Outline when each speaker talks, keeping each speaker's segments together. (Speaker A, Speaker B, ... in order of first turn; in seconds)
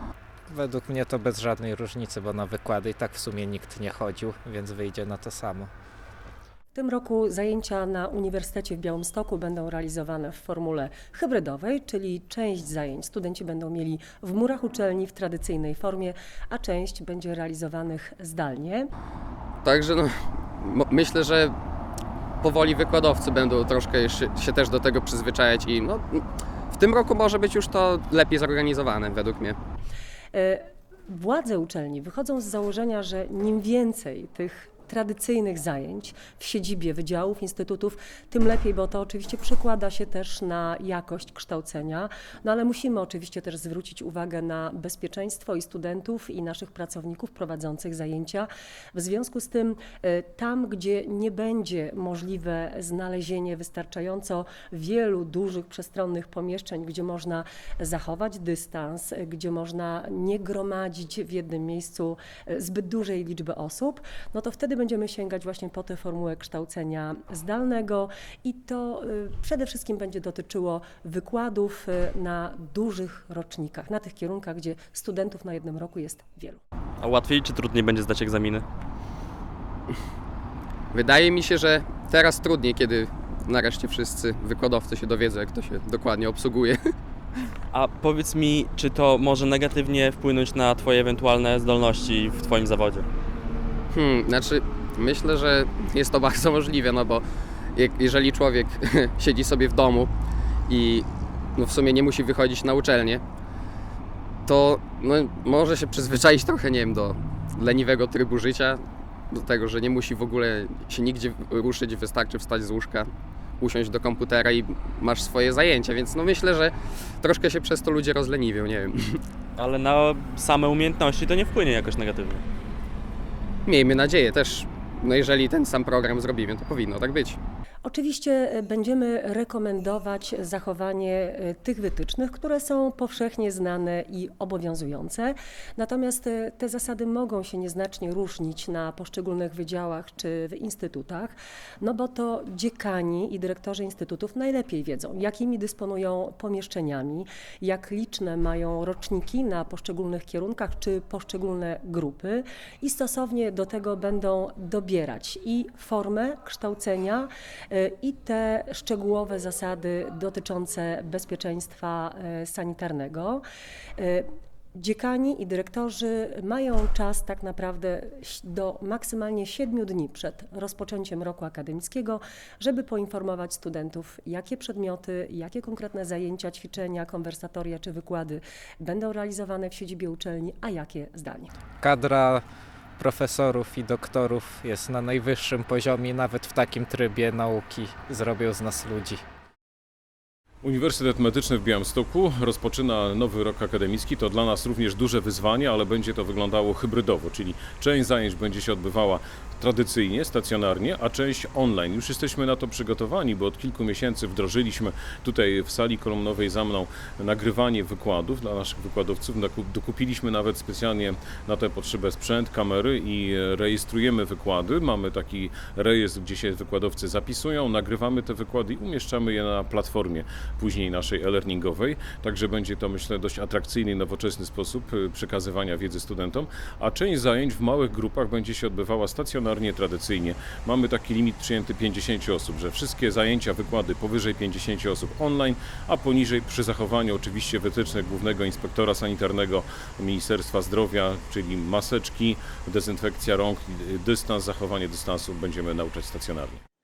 Speaker A: 0.5-5.7, 181.8-182.4, 183.0-189.2
Speaker B: 6.7-18.9, 30.3-76.6, 127.8-163.4, 164.0-181.5
Speaker C: 19.6-21.5, 22.4-29.6, 80.9-86.8, 93.9-100.1, 100.7-103.2, 104.5-119.2, 123.7-127.4
Speaker D: 77.0-78.7, 87.7-93.1, 119.6-122.4
Speaker E: 190.6-246.6